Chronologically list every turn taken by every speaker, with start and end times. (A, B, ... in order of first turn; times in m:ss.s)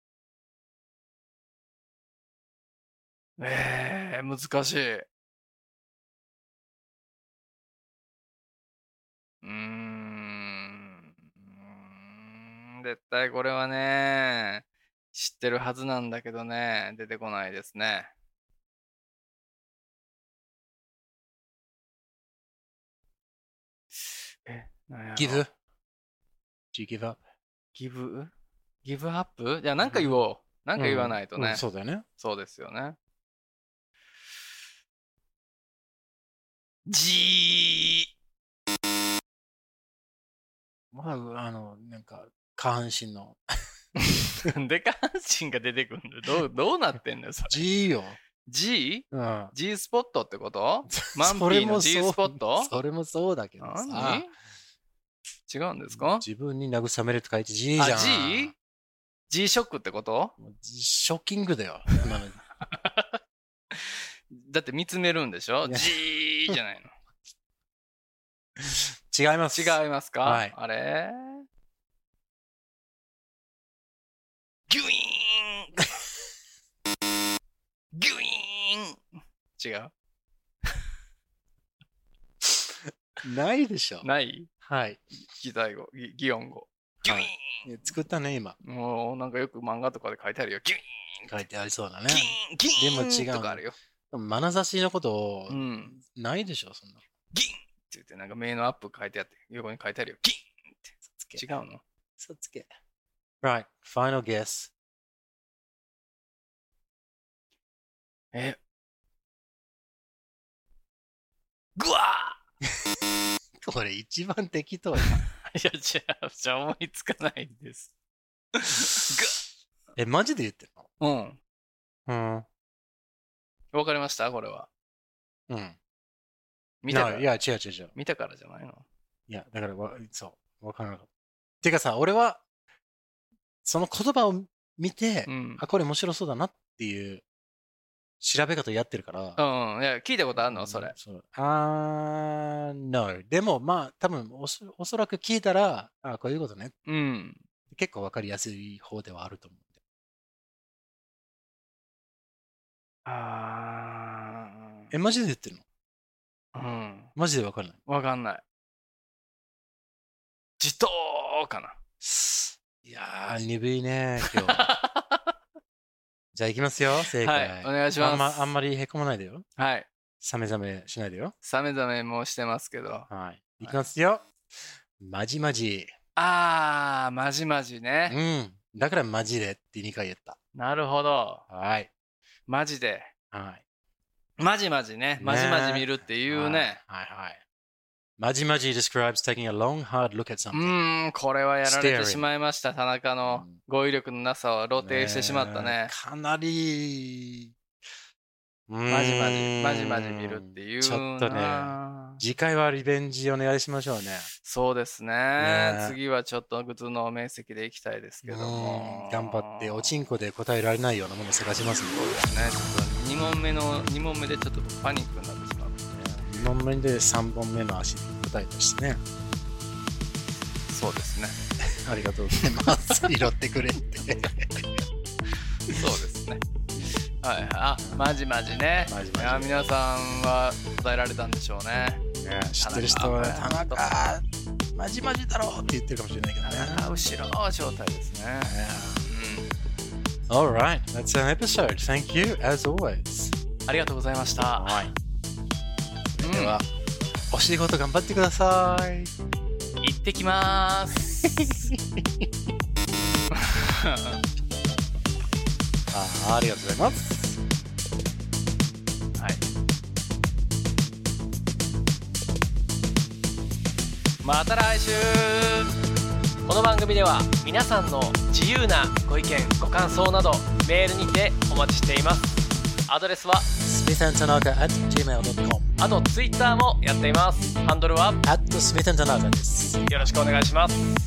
0:03.4-0:05.1 A
0:09.4-0:18.1 A
0:24.4-0:25.4 A
0:25.2-0:25.5 B
0:26.7-0:27.2 B
0:27.8-0:28.3 A
0:28.8-0:31.6 A
0:29.8-0:30.2 B
0:30.8-0:32.0 B
0:32.2-0:33.0 A
0:36.9-0:38.1 A
0:40.9-0:43.7 B
0:44.0-0:47.6 A
0:47.5-0:48.2 B
0:48.4-0:52.7 A
0:49.1-0:49.5 B
0:50.9-0:54.3 B
0:53.6-0:54.3 A
0:55.5-0:56.3 A
0:55.9-0:58.5 B
0:57.8-0:58.5 A
0:59.3-1:00.3 A
1:00.4-1:02.4 B
1:02.6-1:03.2 A
1:03.7-1:06.9 A
1:05.7-1:05.9 B
1:08.6-1:10.5 B
1:09.5-1:11.4 A
1:14.7-1:16.0 A
1:17.9-1:19.0 A
1:19.6-1:19.9 A
1:22.4-1:24.1 B
1:24.0-1:24.5 A
1:24.6-1:25.0 B
1:25.2-1:27.6 A
1:27.0-1:28.6 B
1:28.6-1:31.3 A
1:31.3-1:37.0 B
1:32.1-1:33.8 A
1:35.5-1:36.0 A
1:37.3-1:41.8 A
1:41.1-1:41.4 B
1:42.2-1:42.7 B
1:43.4-1:44.7 B
1:48.3-1:48.6 A
1:51.8-1:52.4 A
1:52.6-1:53.0 B
1:53.6-1:55.2 B
1:55.4-1:57.9 A
1:58.5-1:59.4 A
2:00.0-2:00.9 B
2:01.0-2:01.4 A
2:02.1-2:02.5 B
2:03.7-2:04.7 A
2:05.5-2:05.8 B
2:06.8-2:07.3 A
2:06.9-2:07.9 B
2:08.0-2:08.8 A
2:09.3-2:11.1 B
2:11.6-2:12.4 B
2:13.6-2:17.2 B
2:15.3-2:15.6 A
2:18.2-2:19.4 B
2:19.4-2:21.0 A
2:20.4-2:26.7 B
2:26.9-2:27.4 A
2:27.7-2:29.7 B
2:33.1-2:34.7 A
2:34.9-2:35.6 B
2:36.5-2:37.1 A
2:37.2-2:37.8 B
2:37.9-2:38.4 A
2:40.6-2:41.8 A
2:42.1-2:44.7 B
2:44.2-2:45.3 A
2:46.3-2:49.4 B
2:47.1-2:48.5 A
2:49.6-2:49.9 A
2:50.2-2:51.3 B
2:51.4-2:53.1 A
2:53.1-2:54.2 B
2:55.0-2:55.9 B
2:56.2-2:58.2 A
2:58.1-3:00.4 B
3:00.6-3:01.4 A
3:01.5-3:01.9 B
3:02.5-3:03.1 A
3:03.3-3:03.6 B
3:04.4-3:06.8 A
3:05.2-3:07.4 B
3:08.2-3:10.8 B
3:10.5-3:15.9 A
3:11.6-3:12.3 B
3:13.3-3:13.6 B
3:14.8-3:17.5 B
3:18.7-3:24.3 B
3:18.9-3:22.2 A
3:24.4-3:29.9 A
3:25.4-3:26.0 B
3:28.2-3:32.0 B
3:31.9-3:36.0 A
3:35.9-3:39.0 B
3:40.7-3:41.4 A
3:41.6-3:44.7 B
3:42.4-3:42.9 A
3:45.7-3:46.4 A
3:46.7-3:47.0 B
3:47.2-3:52.0 A
3:48.8-3:49.5 B
3:52.2-3:56.9 B
3:52.6-3:53.8 A
3:56.4-3:59.5 A
3:58.4-3:59.1 B
4:00.3-4:03.4 B
4:03.7-4:04.8 A
4:04.6-4:04.9 B
4:06.1-4:06.6 B
4:06.2-4:06.6 A
4:07.3-4:09.1 B
4:09.8-4:11.5 A
4:11.2-4:12.3 B
4:13.3-4:14.2 A
4:15.9-4:17.4 B
4:19.2-4:19.4 A
4:24.2-4:25.7 A
4:26.5-4:33.5 A
4:33.6-4:35.7 B
4:35.8-4:38.2 A
4:38.2-4:39.9 B
4:39.9-4:40.9 A